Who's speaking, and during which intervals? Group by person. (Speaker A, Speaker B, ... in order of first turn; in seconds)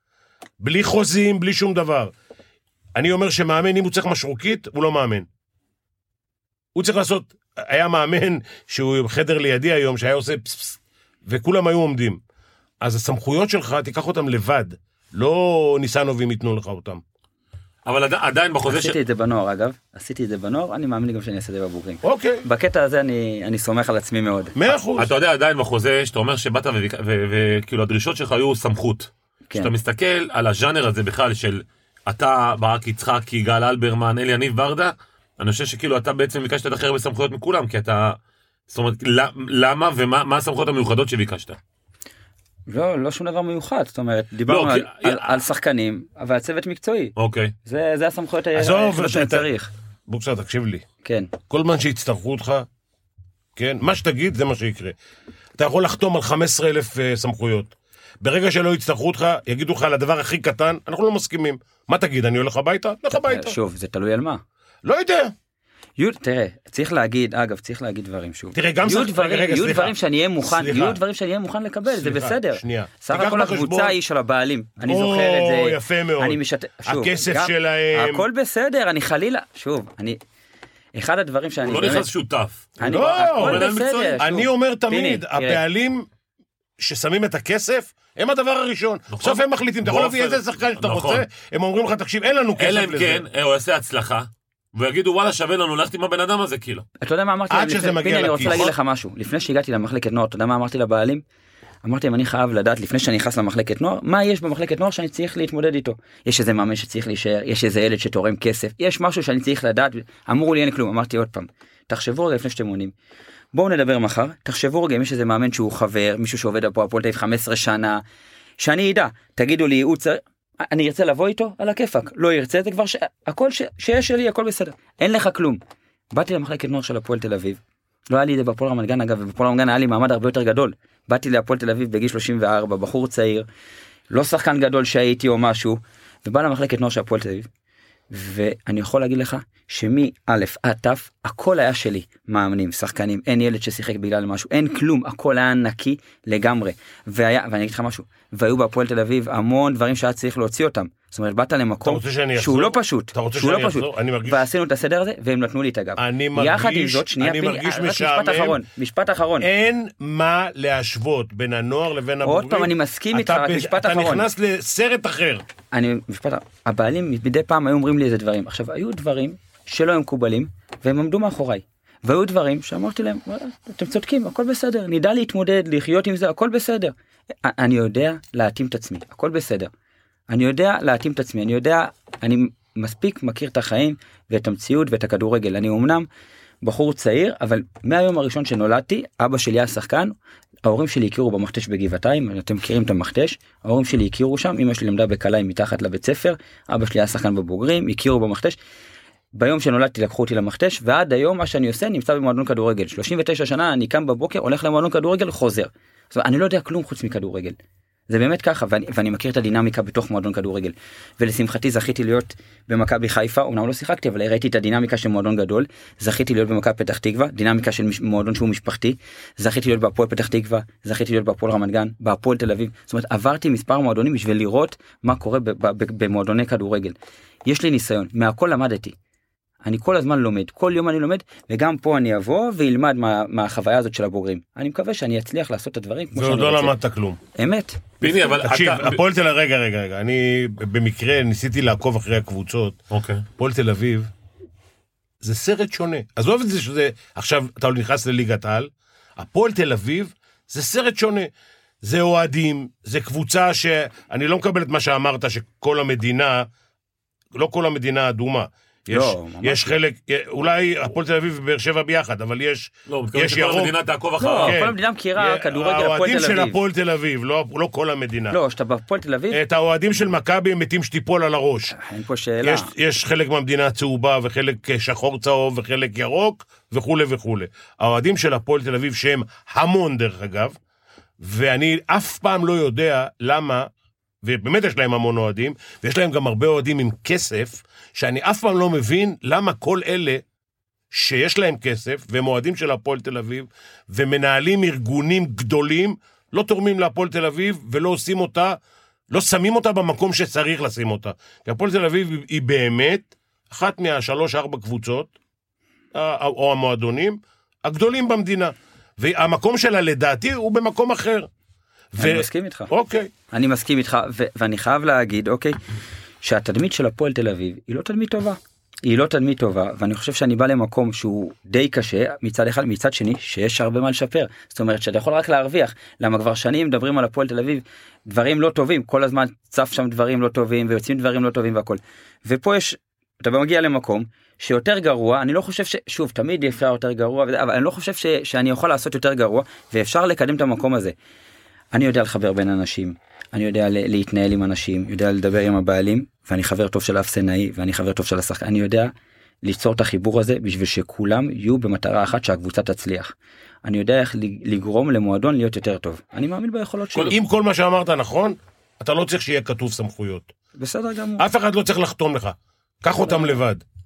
Speaker A: 0.6-2.1, 3.0-5.3, 6.8-12.2, 12.8-17.0, 22.0-22.4, 24.5-25.1, 48.5-49.5, 50.1-50.8, 51.5-52.6, 53.5-55.0, 55.6-63.6, 64.8-65.3, 68.5-71.0, 71.9-74.0, 74.8-78.2, 82.8-83.7, 84.2-86.1, 86.8-93.2, 97.5-98.7, 151.8-154.4, 156.0-158.6, 159.4-165.4, 236.2-237.2, 238.4-242.8, 243.3-244.1, 245.2-251.3, 251.8-256.5, 257.3-263.7, 264.4-268.4, 269.3-271.8, 272.4-280.6, 281.2-283.7, 284.2-290.2, 290.9-298.6, 299.1-305.1, 305.9-311.3, 311.9-313.1, 357.1-360.3, 361.2-363.6
Speaker B: 17.9-19.0, 25.0-38.2, 38.7-41.6, 44.5-45.3, 47.2-47.5, 81.7-84.2, 89.1-91.2, 92.6-96.8, 238.0-239.0, 242.9-243.2, 262.9-264.6
Speaker C: 18.6-24.6, 42.7-47.1, 47.6-49.7, 51.0-51.3, 63.1-64.4, 66.0-80.2, 81.0-82.1, 82.8-85.6, 97.0-101.2, 101.8-112.9, 113.5-118.0, 118.6-125.6, 126.1-133.5, 134.1-137.5, 138.1-159.5, 162.2-164.2, 165.7-179.7, 180.3-186.1, 186.6-198.6, 199.3-207.6, 208.1-228.9, 229.6-236.7, 237.3-237.9, 258.9-259.8, 264.2-266.6, 268.3-269.4, 271.7-272.7, 312.0-312.7, 313.3-315.6, 316.2-340.9, 341.7-348.9, 349.4-353.1, 353.6-357.2, 360.6-361.2, 363.1-363.4